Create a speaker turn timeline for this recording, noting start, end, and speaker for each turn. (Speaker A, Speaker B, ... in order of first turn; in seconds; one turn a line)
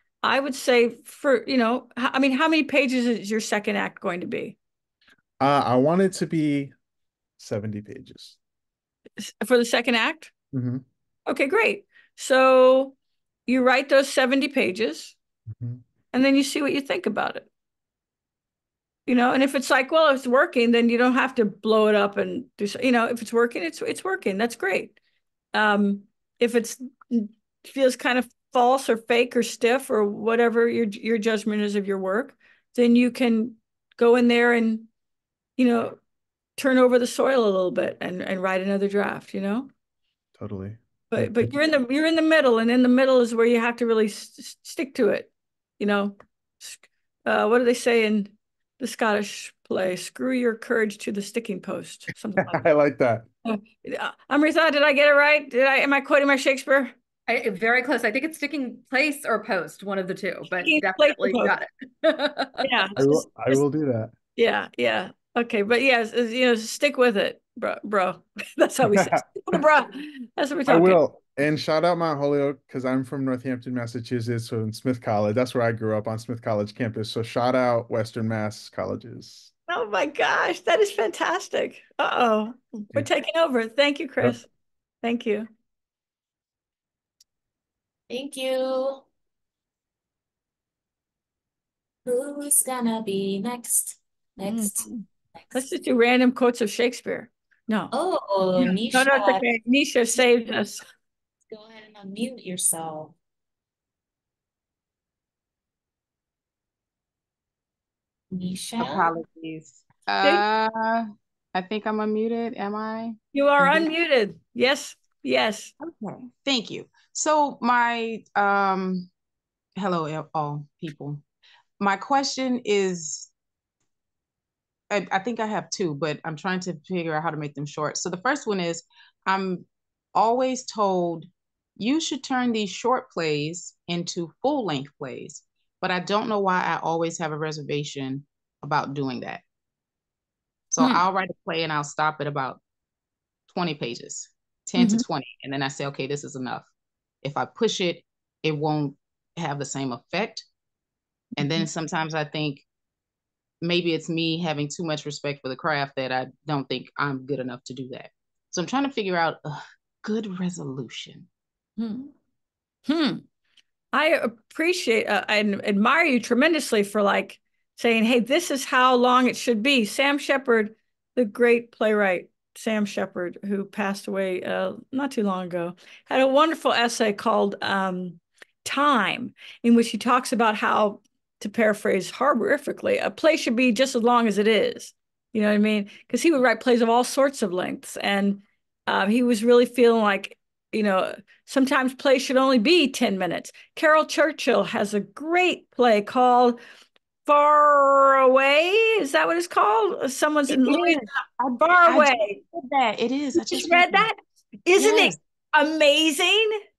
Speaker A: 0.2-4.6
Speaker B: 5.4-6.7
Speaker B: 7.4-8.4
Speaker A: 9.2-10.3
Speaker B: 10.5-10.8
Speaker A: 11.3-12.9
Speaker A: 13.5-15.2
Speaker B: 15.6-15.8
Speaker A: 16.1-17.5
Speaker A: 19.1-25.0
Speaker A: 25.5-34.9
Speaker A: 35.6-36.0
Speaker A: 36.6-39.7
Speaker B: 40.4-41.5
Speaker A: 41.1-52.6
Speaker B: 52.4-53.3
Speaker A: 53.5-56.9
Speaker C: 57.3-62.6
Speaker A: 60.6-61.5
Speaker A: 62.6-63.6
Speaker B: 63.0-64.1
Speaker A: 64.4-71.0
Speaker B: 68.8-69.6
Speaker B: 70.7-79.5
Speaker A: 79.7-84.5
Speaker A: 85.0-85.5
Speaker D: 88.1-89.1
Speaker D: 92.1-95.6
Speaker A: 94.4-97.9
Speaker D: 97.9-99.4
Speaker A: 98.6-100.8
Speaker D: 101.5-103.2
Speaker D: 108.3-109.2
Speaker E: 108.8-113.9
Speaker A: 113.3-115.7
Speaker E: 115.8-119.1
Speaker E: 119.8-121.2
Speaker E: 121.8-123.3
Speaker E: 124.9-139.4
Speaker E: 140.7-142.6
Speaker E: 143.5-146.7
Speaker A: 144.8-145.0
Speaker E: 147.2-150.5
Speaker E: 151.4-152.7
Speaker A: 151.4-151.7
Speaker E: 153.6-161.3
Speaker A: 161.8-162.1
Speaker A: 162.9-163.2
Speaker A: 163.9-196.6
Speaker A: 197.3-202.4
Speaker E: 200.5-201.1
Speaker E: 201.9-204.1
Speaker A: 203.4-206.6
Speaker E: 204.8-205.2